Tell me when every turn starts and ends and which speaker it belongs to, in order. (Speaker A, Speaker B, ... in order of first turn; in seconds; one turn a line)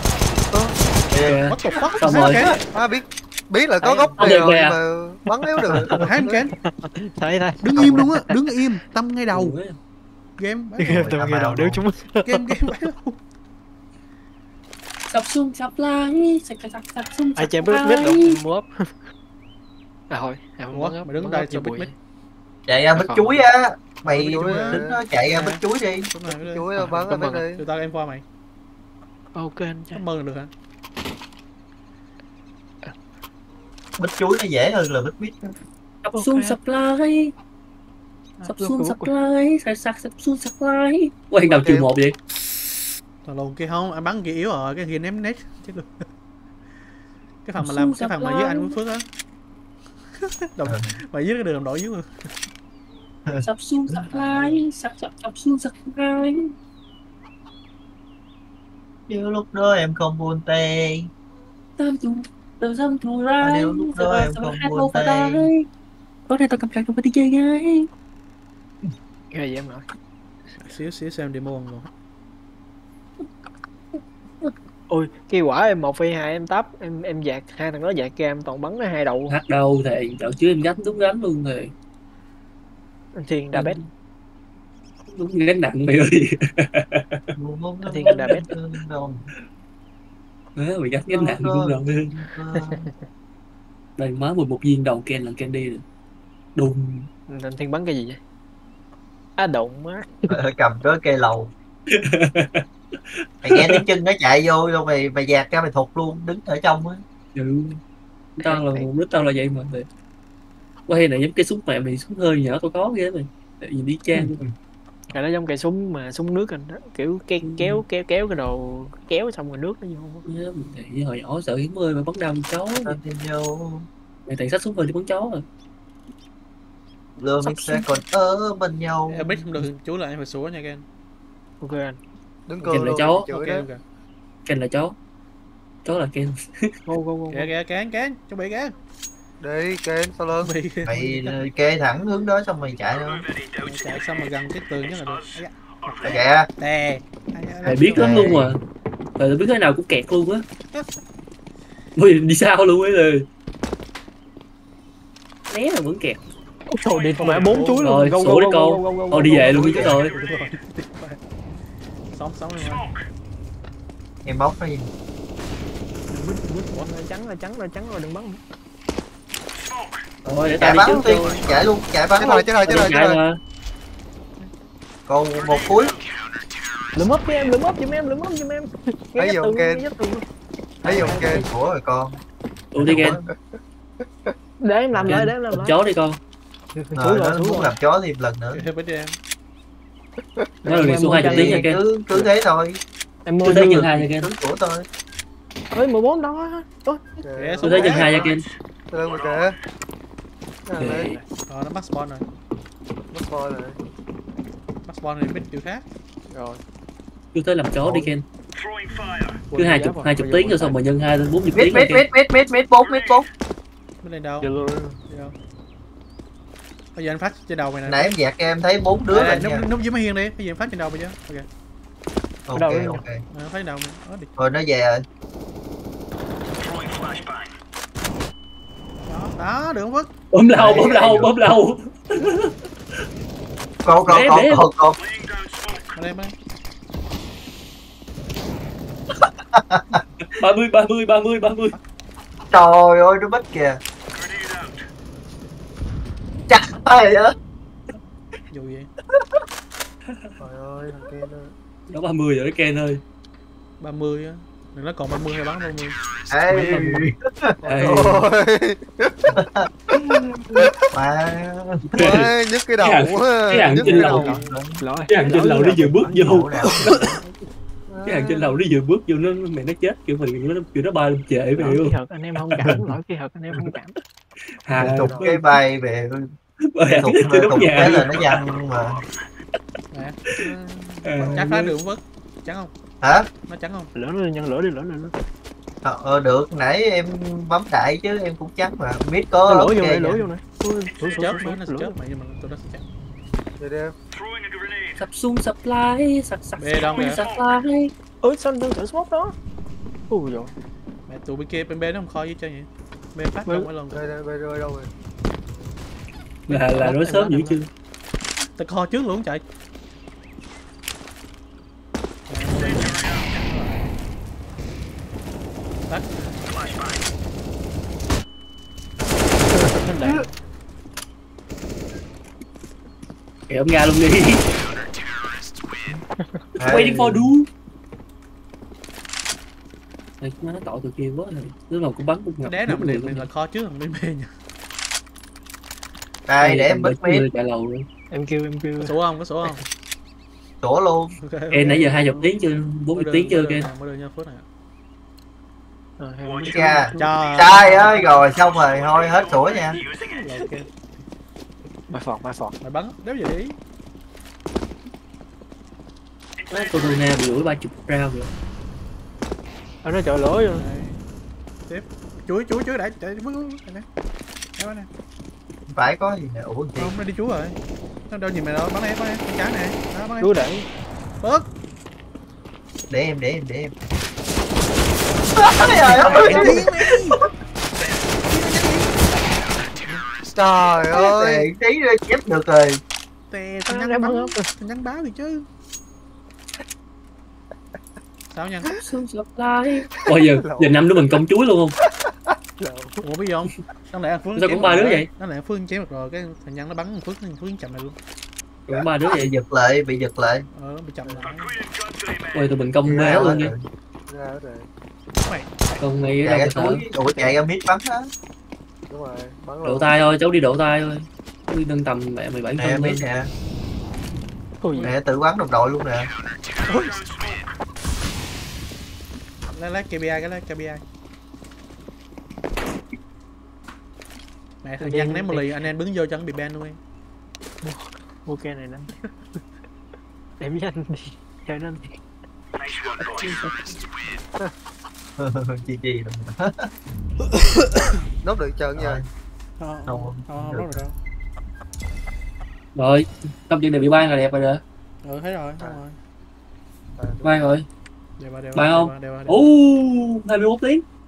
Speaker A: 1.1-1.4
Speaker B: 1.2-2.5
Speaker C: 1.5-2.8
Speaker A: 2.2-2.5
Speaker D: 2.6-6.5
Speaker E: 3.8-4.1
Speaker B: 4.2-4.8
Speaker E: 5.7-6.1
Speaker A: 5.7-6.0
Speaker C: 6.0-6.6
Speaker E: 6.8-8.3
Speaker C: 7.6-9.6
Speaker A: 7.8-8.0
Speaker B: 9.3-9.8
Speaker C: 10.4-11.1
Speaker E: 10.8-12.7
Speaker A: 10.8-11.8
Speaker C: 12.2-13.2
Speaker B: 15.1-18.4
Speaker E: 17.4-18.9
Speaker E: 20.1-21.9
Speaker C: 20.7-21.9
Speaker A: 22.7-26.1
Speaker E: 22.9-23.4
Speaker C: 24.1-26.7
Speaker D: 24.2-25.0
Speaker D: 26.2-27.6
Speaker E: 26.8-27.4
Speaker C: 27.5-28.2
Speaker E: 29.4-30.0
Speaker C: 29.9-30.5
Speaker A: 34.0-35.5
Speaker B: 36.0-37.3
Speaker E: 36.1-36.6
Speaker E: 38.4-39.1
Speaker B: 38.5-42.2
Speaker A: 41.4-41.9
Speaker C: 43.2-45.9
Speaker C: 47.4-49.1
Speaker B: 47.6-48.8
Speaker C: 50.2-52.1
Speaker B: 53.4-56.5
Speaker C: 54.1-54.6
Speaker A: 59.1-61.1
Speaker B: 61.8-65.7
Speaker A: 63.4-65.5
Speaker B: 66.3-67.9
Speaker E: 69.3-69.8
Speaker C: 70.6-71.9
Speaker E: 74.9-79.4
Speaker B: 79.3-81.7
Speaker E: 83.2-83.8
Speaker B: 83.5-83.9
Speaker B: 85.1-87.2
Speaker A: 87.4-89.3
Speaker E: 87.8-88.5
Speaker B: 88.0-88.5
Speaker B: 90.6-92.3
Speaker A: 91.1-92.8
Speaker E: 92.6-93.0
Speaker B: 94.0-95.8
Speaker B: 96.6-97.1
Speaker E: 97.3-98.2
Speaker E: 99.4-100.3
Speaker A: 100.3-101.5
Speaker B: 101.9-102.6
Speaker A: 103.4-107.0
Speaker B: 103.5-103.8
Speaker B: 107.3-107.8
Speaker B: 108.4-109.9
Speaker E: 108.4-108.9
Speaker B: 110.9-114.4
Speaker A: 114.1-114.5
Speaker E: 115.1-120.3
Speaker B: 117.4-117.8
Speaker B: 120.2-122.9
Speaker A: 122.8-123.9
Speaker B: 124.3-125.4
Speaker A: 127.2-129.5
Speaker B: 127.4-127.9
Speaker C: 129.1-130.8
Speaker E: 131.6-132.0
Speaker D: 132.5-133.7
Speaker C: 132.6-133.8
Speaker B: 132.7-133.3
Speaker B: 134.5-135.0
Speaker B: 135.8-136.8
Speaker E: 136.9-137.5
Speaker C: 137.3-138.8
Speaker D: 139.4-140.6
Speaker C: 140.4-141.4
Speaker A: 140.8-143.3
Speaker C: 143.6-148.2
Speaker A: 146.0-146.5
Speaker B: 147.6-148.6
Speaker A: 147.9-148.6
Speaker B: 149.2-150.4
Speaker B: 152.0-153.3
Speaker B: 155.5-156.2
Speaker E: 156.7-159.7
Speaker C: 157.2-157.9
Speaker B: 157.8-160.2
Speaker A: 159.5-160.0
Speaker C: 160.1-161.2
Speaker C: 162.1-162.9
Speaker A: 164.2-164.9
Speaker E: 166.1-168.4
Speaker C: 166.7-166.9
Speaker B: 170.2-171.0
Speaker A: 170.6-172.4
Speaker E: 170.8-171.4
Speaker D: 172.2-173.2
Speaker B: 172.3-173.4
Speaker A: 175.1-176.0
Speaker E: 176.9-180.2
Speaker D: 179.2-179.9
Speaker E: 180.8-181.4
Speaker A: 180.8-182.2
Speaker D: 181.0-181.4
Speaker B: 182.7-183.2
Speaker A: 182.8-183.3
Speaker E: 184.6-185.8
Speaker A: 184.9-185.3
Speaker B: 185.1-186.2
Speaker E: 186.8-187.8
Speaker A: 186.9-188.7
Speaker C: 188.5-189.2
Speaker D: 190.4-191.0
Speaker E: 190.6-192.3
Speaker B: 190.7-191.8
Speaker A: 191.2-192.8
Speaker E: 193.2-194.1
Speaker B: 193.4-194.3
Speaker A: 194.1-194.9
Speaker E: 195.7-197.0
Speaker D: 197.2-198.0
Speaker C: 197.4-198.2
Speaker B: 197.6-198.5
Speaker D: 198.9-199.6
Speaker D: 200.7-201.2
Speaker B: 200.8-201.1
Speaker E: 200.9-201.2
Speaker C: 201.5-202.2
Speaker D: 203.1-203.8
Speaker C: 204.9-205.8
Speaker E: 206.3-206.6
Speaker B: 207.3-208.2
Speaker C: 209.4-210.7
Speaker E: 209.6-210.8
Speaker B: 209.6-212.1
Speaker A: 211.5-213.3
Speaker C: 214.0-214.5
Speaker E: 214.4-215.0
Speaker C: 215.1-215.3
Speaker C: 216.9-218.1
Speaker A: 217.9-219.7
Speaker C: 219.1-221.5
Speaker A: 222.5-223.2
Speaker E: 222.5-223.0
Speaker C: 223.3-224.3
Speaker A: 224.4-225.0
Speaker C: 229.1-230.1
Speaker B: 230.3-232.5
Speaker A: 230.6-231.3
Speaker A: 233.8-235.0
Speaker B: 234.1-234.7
Speaker C: 235.9-236.3
Speaker A: 239.5-240.0
Speaker B: 240.3-241.8
Speaker A: 242.5-243.8
Speaker A: 246.5-247.3
Speaker C: 248.5-248.9
Speaker D: 250.4-251.5
Speaker B: 251.9-253.0
Speaker C: 253.8-256.0
Speaker A: 256.3-257.5
Speaker B: 256.5-257.1
Speaker D: 257.6-259.3
Speaker B: 257.6-258.2
Speaker A: 259.3-261.9
Speaker B: 261.9-264.4
Speaker D: 262.0-264.4
Speaker E: 263.8-267.2
Speaker A: 263.9-264.8
Speaker B: 265.1-267.1
Speaker A: 266.2-266.9
Speaker D: 267.9-268.6
Speaker B: 268.1-271.9
Speaker E: 271.6-274.0
Speaker B: 274.6-275.6
Speaker A: 274.8-276.3
Speaker D: 274.9-275.3
Speaker B: 276.7-278.4
Speaker A: 276.9-279.0
Speaker C: 279.9-280.2
Speaker D: 280.4-281.4
Speaker B: 281.1-281.8
Speaker C: 281.1-282.7
Speaker A: 283.0-283.3
Speaker C: 283.5-283.9
Speaker E: 283.9-285.1
Speaker A: 285.8-290.2
Speaker E: 289.5-291.9
Speaker C: 291.0-292.8
Speaker D: 293.6-293.9
Speaker B: 295.0-297.9
Speaker C: 296.6-297.2
Speaker E: 298.2-299.4
Speaker E: 300.1-300.5
Speaker C: 301.1-304.0
Speaker D: 303.9-304.9
Speaker B: 306.5-307.7
Speaker E: 306.7-307.6
Speaker C: 308.6-309.4
Speaker C: 312.3-313.9
Speaker C: 315.9-316.3
Speaker E: 319.8-320.3
Speaker B: 323.5-324.4
Speaker A: 326.6-327.3
Speaker B: 326.6-327.5
Speaker B: 330.2-333.3
Speaker C: 332.4-334.3
Speaker A: 336.3-337.2
Speaker B: 336.4-337.9
Speaker E: 338.1-339.0
Speaker C: 338.8-339.6
Speaker A: 340.6-341.1
Speaker C: 341.2-342.3
Speaker B: 341.5-343.7
Speaker C: 342.9-344.4
Speaker E: 346.0-348.1
Speaker A: 346.5-349.8
Speaker C: 347.0-348.0
Speaker C: 350.1-350.7
Speaker E: 351.9-352.6
Speaker C: 352.6-353.6
Speaker B: 356.5-358.3
Speaker E: 359.8-360.6
Speaker C: 360.5-361.0
Speaker C: 361.7-363.9
Speaker C: 364.6-364.9
Speaker A: 365.7-366.9
Speaker C: 366.8-367.6
Speaker C: 368.1-370.4
Speaker E: 370.2-370.7
Speaker C: 371.2-371.5
Speaker A: 372.9-373.7
Speaker A: 375.4-376.7
Speaker C: 375.8-377.2
Speaker E: 376.1-376.5
Speaker C: 378.2-378.9
Speaker D: 380.2-381.5
Speaker A: 380.9-382.8
Speaker C: 383.3-385.4
Speaker E: 383.7-384.4
Speaker C: 388.3-388.7
Speaker B: 388.7-391.8
Speaker D: 390.3-391.0
Speaker D: 391.8-393.0
Speaker C: 393.0-398.0
Speaker B: 394.4-395.1
Speaker B: 398.7-399.3
Speaker A: 398.8-400.5
Speaker C: 400.6-401.6
Speaker D: 401.0-401.3
Speaker B: 402.3-403.5
Speaker A: 402.9-403.6
Speaker D: 403.0-403.3
Speaker D: 404.1-404.7
Speaker C: 405.2-405.8
Speaker B: 405.8-406.8
Speaker A: 406.2-408.1
Speaker D: 408.9-410.0
Speaker B: 409.6-413.1
Speaker A: 412.6-413.3
Speaker E: 414.6-414.9
Speaker A: 414.8-416.1
Speaker C: 419.5-420.8
Speaker C: 424.6-426.8
Speaker E: 424.8-425.7
Speaker E: 427.6-428.9
Speaker E: 430.4-431.8
Speaker B: 433.0-433.8
Speaker A: 435.2-436.7
Speaker C: 437.4-437.8
Speaker D: 438.2-439.0
Speaker A: 438.8-439.1
Speaker C: 439.6-440.9
Speaker A: 439.9-440.8
Speaker B: 442.8-444.6
Speaker C: 445.0-446.0
Speaker D: 447.0-447.4
Speaker B: 447.2-447.7
Speaker C: 448.2-449.5
Speaker B: 448.6-450.8